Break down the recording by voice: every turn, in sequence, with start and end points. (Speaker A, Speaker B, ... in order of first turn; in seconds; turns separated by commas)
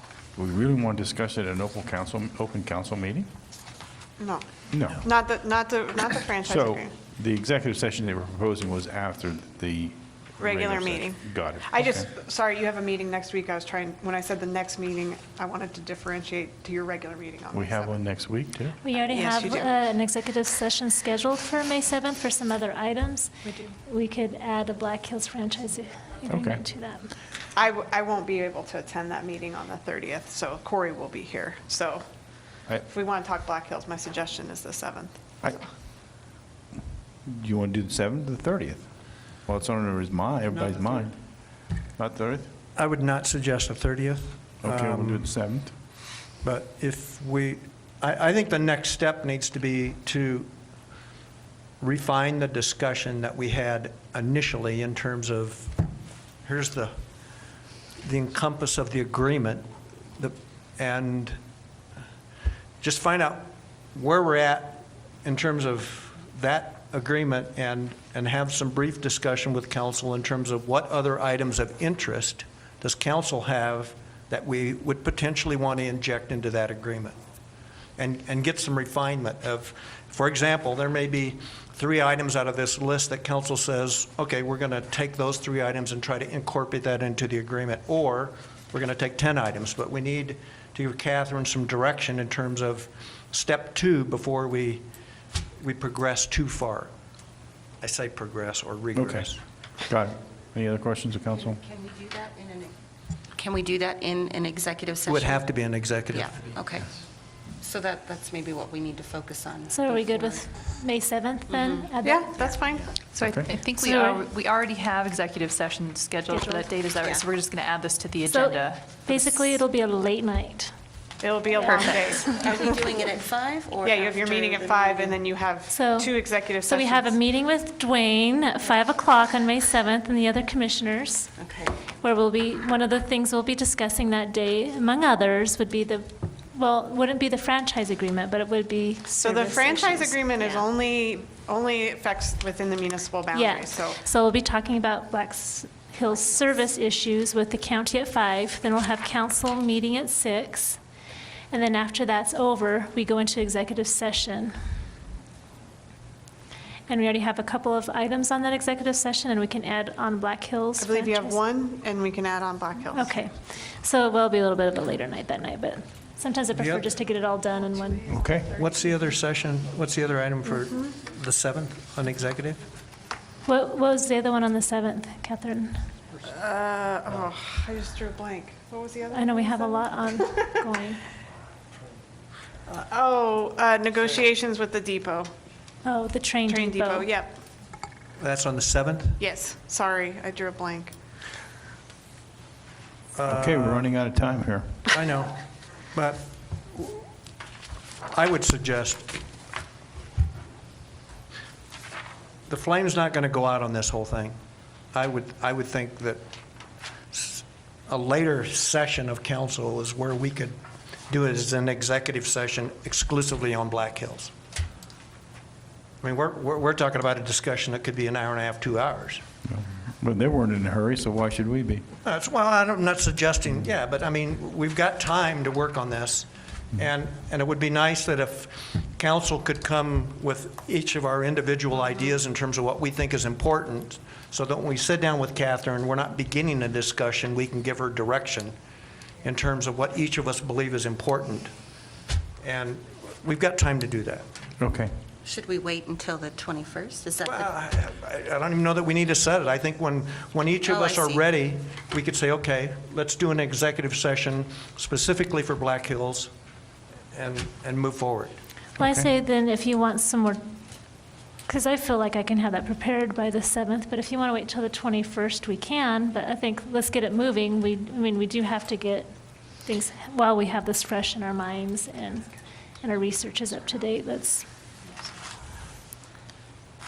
Speaker A: 0.3-3.3, Speaker B: 4.2-6.9, Speaker A: 4.7-5.1, Speaker A: 6.4-12.1, Speaker B: 10.4-18.0, Speaker A: 17.5-18.8, Speaker C: 18.8-27.1, Speaker B: 19.1-19.7, Speaker A: 26.3-26.6, Speaker B: 27.6-32.0, Speaker B: 32.8-35.6, Speaker A: 37.2-38.9, Speaker A: 39.4-41.2, Speaker A: 41.9-42.5, Speaker D: 42.8-45.3, Speaker A: 44.6-45.7, Speaker D: 46.4-50.5, Speaker D: 51.8-55.8, Speaker D: 56.4-56.9, Speaker D: 58.0-59.6, Speaker D: 60.1-61.4, Speaker D: 62.8-77.2, Speaker D: 78.0-94.8, Speaker D: 95.6-96.9, Speaker D: 97.8-99.4, Speaker A: 98.9-99.3, Speaker A: 99.8-101.6, Speaker E: 101.3-102.7, Speaker E: 103.3-105.4, Speaker D: 105.0-106.5, Speaker E: 106.1-106.9, Speaker E: 107.6-110.4, Speaker C: 109.7-112.6, Speaker E: 111.5-111.9, Speaker B: 112.0-113.0, Speaker F: 113.1-119.5, Speaker A: 113.2-113.5, Speaker C: 113.8-114.2, Speaker C: 116.3-116.7, Speaker C: 118.3-120.7, Speaker B: 121.2-122.6, Speaker C: 121.5-122.0, Speaker F: 121.7-122.2, Speaker E: 122.2-125.1, Speaker B: 123.8-127.1, Speaker C: 125.7-131.3, Speaker E: 131.4-131.8, Speaker C: 131.9-140.2, Speaker B: 139.2-144.0, Speaker E: 140.4-140.6, Speaker C: 143.3-150.8, Speaker C: 151.5-154.5, Speaker C: 156.9-161.4, Speaker B: 160.8-163.2, Speaker C: 162.9-168.1, Speaker D: 166.5-166.9, Speaker A: 168.1-168.5, Speaker D: 168.5-172.6, Speaker C: 173.4-175.7, Speaker B: 176.2-180.4, Speaker C: 179.1-181.0, Speaker B: 182.7-185.3, Speaker C: 185.8-187.1, Speaker B: 186.5-187.4, Speaker D: 188.2-189.2, Speaker B: 189.2-190.9, Speaker D: 193.1-193.9, Speaker A: 193.2-194.9, Speaker D: 194.9-195.4, Speaker D: 195.9-197.0, Speaker D: 198.1-199.2, Speaker D: 202.5-204.3, Speaker D: 204.9-206.2, Speaker D: 207.1-210.5, Speaker D: 211.1-214.3, Speaker D: 216.0-219.2, Speaker A: 219.5-221.8, Speaker D: 222.0-238.5, Speaker D: 239.2-241.5, Speaker D: 242.4-244.2, Speaker A: 244.6-244.9, Speaker E: 245.2-247.5, Speaker D: 247.2-256.3, Speaker E: 250.7-251.2, Speaker D: 257.1-258.4, Speaker A: 258.8-259.1, Speaker C: 258.8-260.4, Speaker C: 261.5-269.1, Speaker C: 269.6-272.3, Speaker C: 272.8-274.4